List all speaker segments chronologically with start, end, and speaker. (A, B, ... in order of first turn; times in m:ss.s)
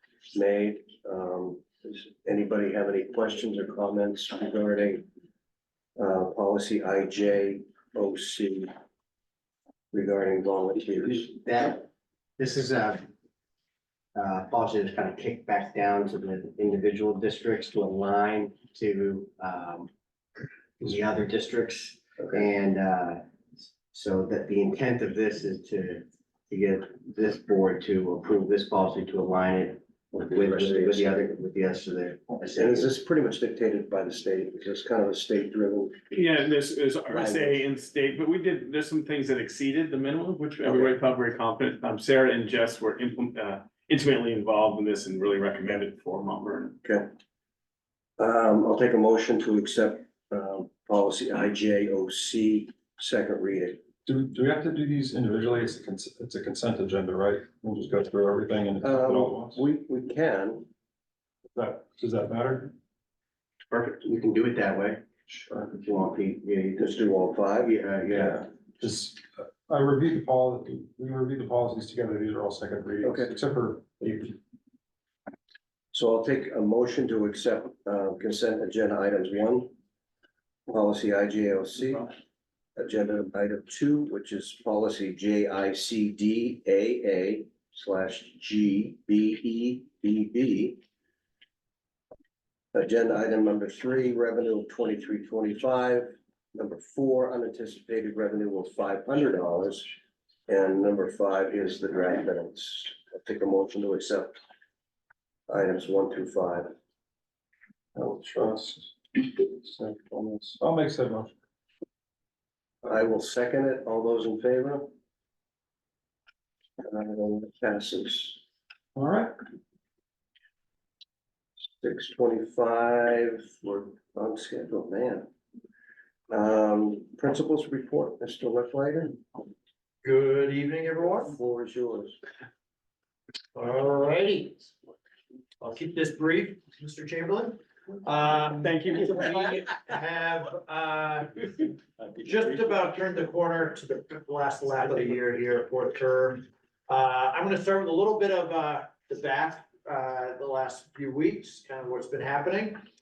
0:00.3-0:05.1 A
0:06.0-0:08.7 A
0:09.9-0:11.4 A
0:11.4-0:13.1 B
0:14.1-0:19.9 B
0:20.8-0:23.2 B
0:23.9-0:32.8 B
0:30.1-0:31.2 A
0:32.5-0:36.1 A
0:36.1-0:46.8 C
0:37.1-0:37.6 A
0:46.8-0:47.1 A
0:48.2-0:53.8 A
0:54.0-0:59.6 D
0:58.8-1:00.7 A
1:01.5-1:02.7 D
1:03.7-1:05.0 B
1:05.7-1:08.5 B
1:06.8-1:08.4 A
1:08.8-1:14.4 D
1:13.0-1:13.3 A
1:15.9-1:19.7 A
1:20.7-1:22.2 A
1:22.8-1:30.8 A
1:32.7-1:39.9 A
1:40.5-1:44.4 A
1:45.5-1:46.7 A
1:48.0-1:51.3 D
1:52.8-1:54.9 A
1:56.8-1:58.4 A
1:59.0-1:59.3 D
2:01.8-2:05.3 A
2:06.3-2:09.2 A
2:10.0-2:11.3 E
2:11.1-2:12.2 A
2:13.6-2:14.7 E
2:15.6-2:21.3 E
2:18.6-2:19.6 C
2:22.2-2:32.8 E